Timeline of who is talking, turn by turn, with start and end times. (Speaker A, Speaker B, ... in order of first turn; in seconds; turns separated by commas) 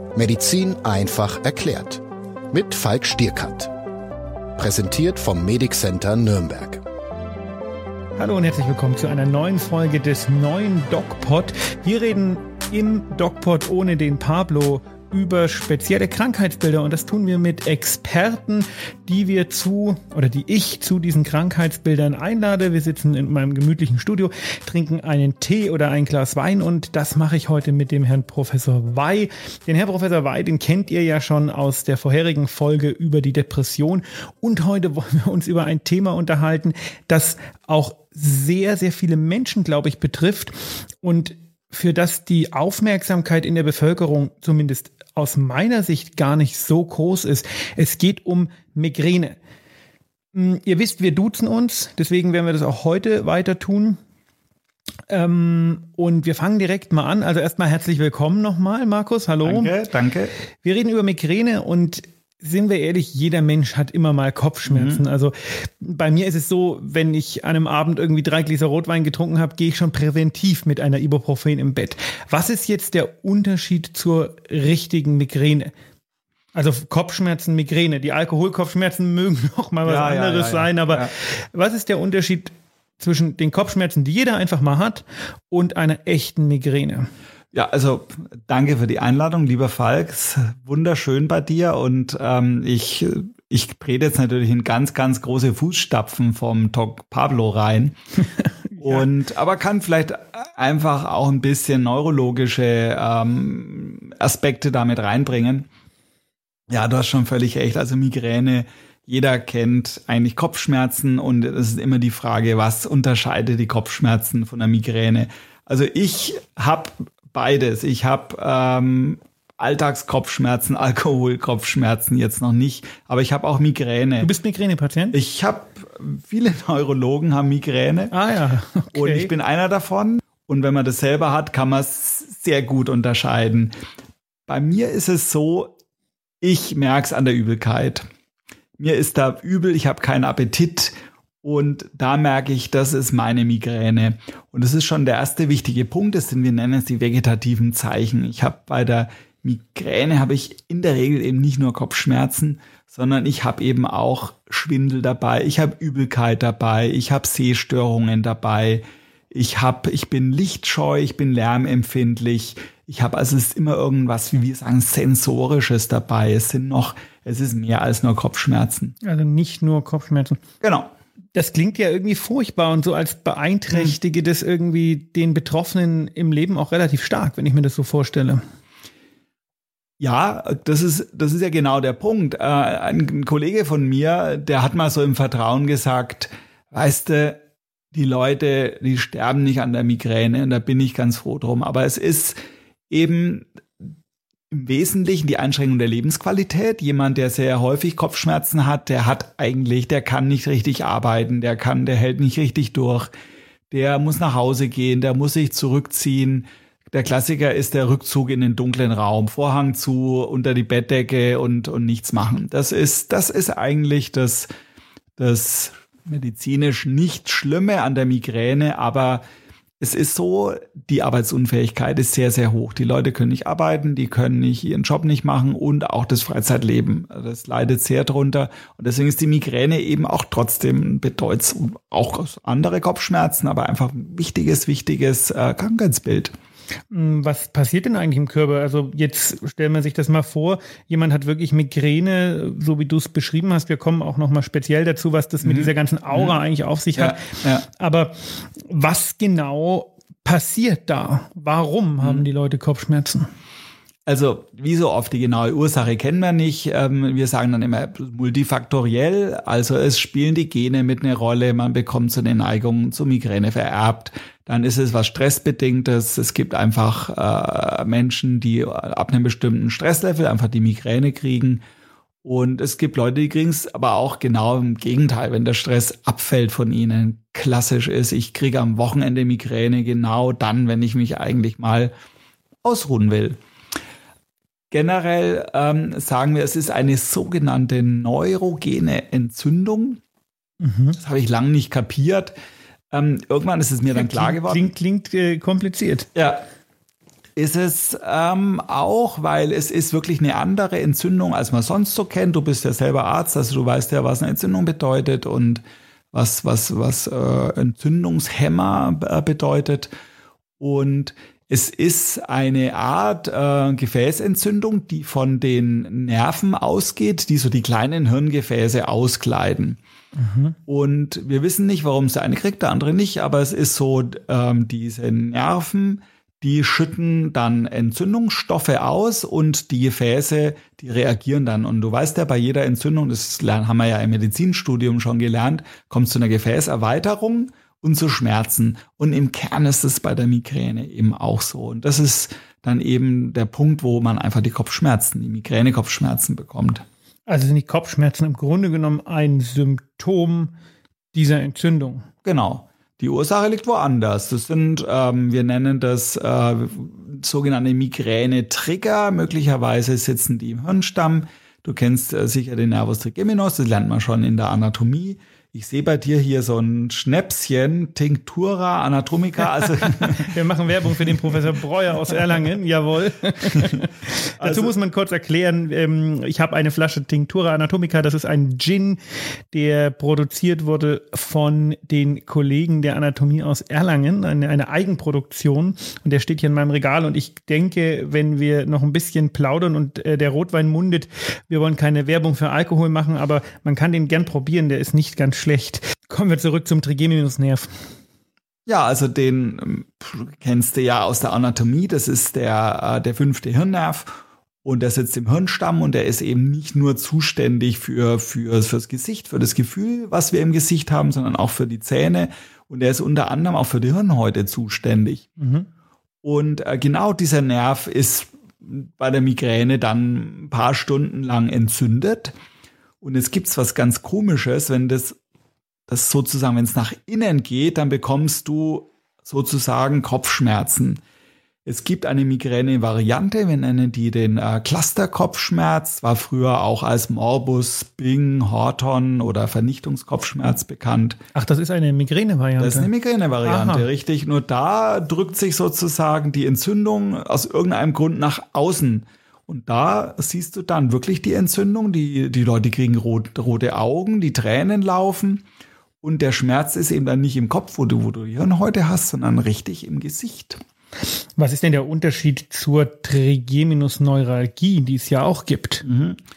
Speaker A: 0.1-3.7, Speaker A: 4.6-6.8, Speaker B: 8.2-49.4, Speaker B: 50.3-54.0, Speaker B: 55.1-59.7, Speaker C: 59.4-60.3, Speaker B: 60.6-75.7, Speaker C: 64.7-65.0, Speaker B: 76.5-87.1, Speaker C: 79.8-81.1, Speaker C: 87.5-98.0, Speaker B: 98.7-99.0, Speaker C: 98.8-105.7, Speaker C: 106.7-124.3, Speaker B: 124.2-125.2, Speaker C: 125.1-128.1, Speaker B: 128.1-129.3, Speaker C: 128.9-133.7, Speaker C: 134.5-135.8, Speaker C: 136.4-138.1, Speaker C: 138.8-169.0, Speaker B: 169.0-170.4, Speaker C: 170.6-170.9, Speaker B: 171.3-178.4, Speaker C: 180.0-187.4, Speaker C: 187.9-192.4, Speaker C: 192.9-193.5, Speaker C: 194.5-203.1, Speaker C: 203.7-214.5, Speaker C: 215.2-219.2, Speaker C: 219.8-236.3, Speaker B: 236.9-247.2, Speaker C: 245.4-246.4, Speaker C: 246.9-247.7, Speaker B: 247.7-253.3, Speaker C: 254.1-271.6, Speaker C: 272.2-281.9, Speaker C: 282.6-283.4, Speaker C: 284.7-290.0, Speaker B: 290.6-291.0, Speaker C: 291.0-292.3, Speaker C: 292.9-294.7, Speaker B: 293.9-296.1, Speaker C: 296.1-296.4, Speaker C: 297.4-305.6, Speaker C: 306.1-309.9, Speaker C: 310.6-319.8, Speaker B: 320.2-320.6, Speaker C: 320.7-346.9, Speaker B: 347.3-350.5, Speaker B: 351.1-352.1, Speaker C: 352.2-371.4, Speaker B: 369.8-379.0, Speaker C: 374.4-374.7, Speaker B: 379.5-397.7, Speaker C: 398.7-415.3, Speaker B: 415.4-415.7, Speaker C: 416.2-422.3, Speaker C: 423.0-425.2, Speaker C: 425.9-431.0, Speaker C: 431.7-441.2, Speaker B: 441.4-442.9, Speaker C: 442.6-455.4, Speaker B: 443.4-443.9, Speaker C: 456.0-460.6, Speaker B: 461.4-465.9, Speaker C: 465.8-466.2